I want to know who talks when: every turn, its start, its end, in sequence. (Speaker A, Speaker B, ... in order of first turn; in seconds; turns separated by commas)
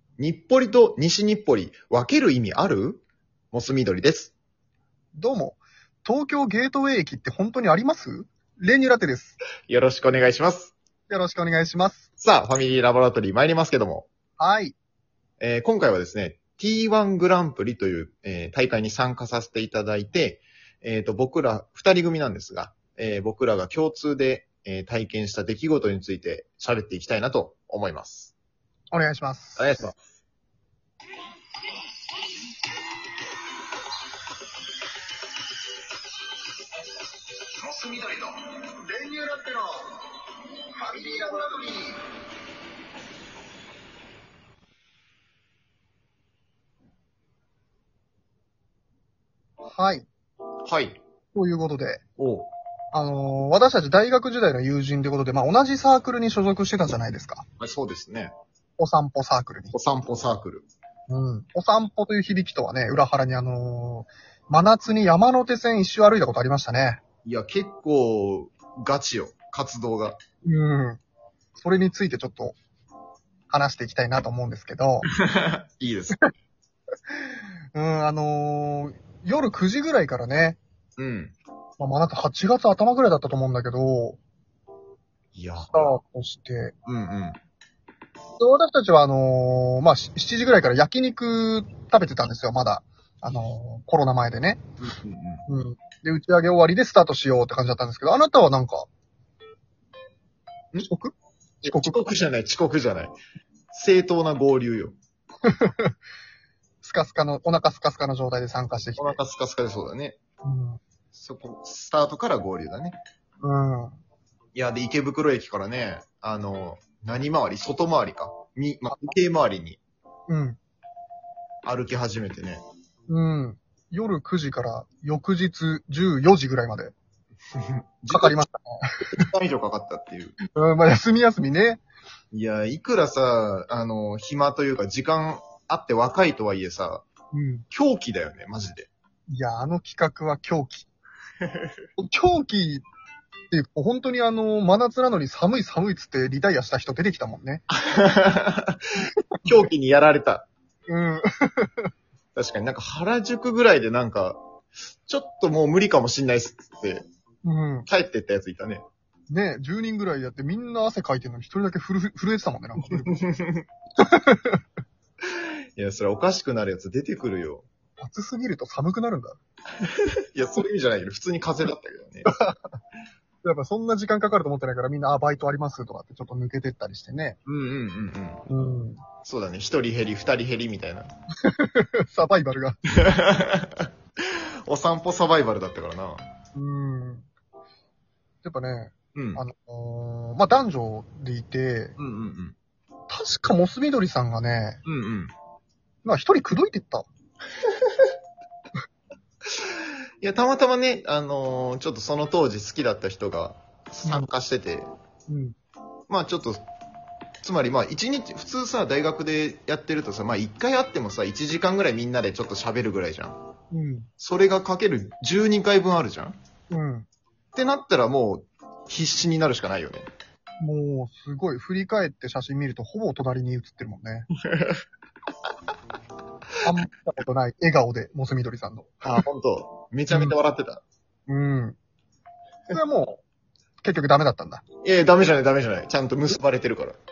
Speaker A: 0.2-4.3, Speaker B: 5.1-9.4, Speaker A: 9.7-10.7, Speaker B: 11.1-12.1, Speaker A: 12.2-14.1, Speaker B: 14.4-14.8, Speaker A: 15.4-28.3, Speaker B: 28.9-29.9, Speaker A: 29.6-29.9, Speaker B: 38.9-40.0, Speaker B: 40.8-42.0, Speaker B: 49.6-50.1, Speaker A: 50.7-51.0, Speaker B: 51.3-52.0, Speaker A: 52.2-52.5, Speaker B: 52.9-57.5, Speaker A: 57.6-58.3, Speaker B: 58.8-59.7, Speaker A: 59.7-60.6, Speaker B: 61.1-67.0, Speaker A: 67.2-70.2, Speaker B: 70.5-71.0, Speaker B: 71.6-72.5, Speaker B: 73.5-75.1, Speaker A: 75.1-76.2, Speaker B: 77.7-80.6, Speaker A: 81.0-81.3, Speaker B: 81.8-84.2, Speaker A: 85.3-85.9, Speaker B: 85.7-86.7, Speaker A: 86.8-87.4, Speaker B: 88.4-94.6, Speaker A: 94.8-95.5, Speaker B: 95.5-98.9, Speaker B: 100.8-101.1, Speaker A: 101.6-103.1, Speaker B: 101.6-102.0, Speaker A: 103.7-105.0, Speaker B: 105.5-106.0, Speaker B: 106.8-109.2, Speaker A: 109.0-110.2, Speaker B: 110.4-110.8, Speaker A: 111.1-113.0, Speaker B: 113.4-114.0, Speaker A: 114.5-119.8, Speaker B: 120.3-120.6, Speaker A: 121.6-122.6, Speaker B: 123.1-126.9, Speaker A: 127.6-128.4, Speaker B: 128.1-129.3, Speaker A: 129.1-130.4, Speaker B: 130.5-131.8, Speaker A: 132.3-137.0, Speaker B: 137.3-137.7, Speaker A: 137.7-138.9, Speaker B: 139.3-140.9, Speaker B: 142.0-142.8, Speaker B: 143.5-147.6, Speaker A: 147.7-148.8, Speaker A: 149.4-150.5, Speaker B: 150.9-151.9, Speaker A: 152.3-154.4, Speaker A: 155.1-157.0, Speaker B: 157.4-157.9, Speaker A: 157.9-158.8, Speaker B: 159.3-163.2, Speaker A: 163.1-163.6, Speaker B: 164.0-164.6, Speaker A: 165.8-167.7, Speaker B: 168.0-169.4, Speaker A: 169.8-172.3, Speaker B: 172.3-172.5, Speaker B: 173.4-177.4, Speaker A: 177.4-178.4, Speaker B: 178.5-179.0, Speaker A: 179.2-181.1, Speaker B: 181.4-182.8, Speaker A: 182.9-186.2, Speaker B: 186.5-187.3, Speaker B: 188.4-191.9, Speaker A: 189.1-189.4, Speaker A: 192.0-192.6, Speaker B: 193.1-194.8, Speaker A: 194.8-195.3, Speaker B: 196.0-197.1, Speaker A: 200.2-204.9, Speaker B: 205.3-205.5, Speaker A: 206.1-206.6, Speaker A: 207.4-213.4, Speaker B: 213.7-214.1, Speaker A: 214.2-216.3, Speaker B: 216.7-217.1, Speaker A: 217.5-220.1, Speaker B: 220.6-224.3, Speaker A: 224.5-224.8, Speaker B: 226.6-229.2, Speaker A: 229.0-230.8, Speaker B: 230.1-230.3, Speaker B: 231.3-231.8, Speaker B: 232.7-233.2, Speaker B: 233.8-234.6, Speaker A: 234.8-237.0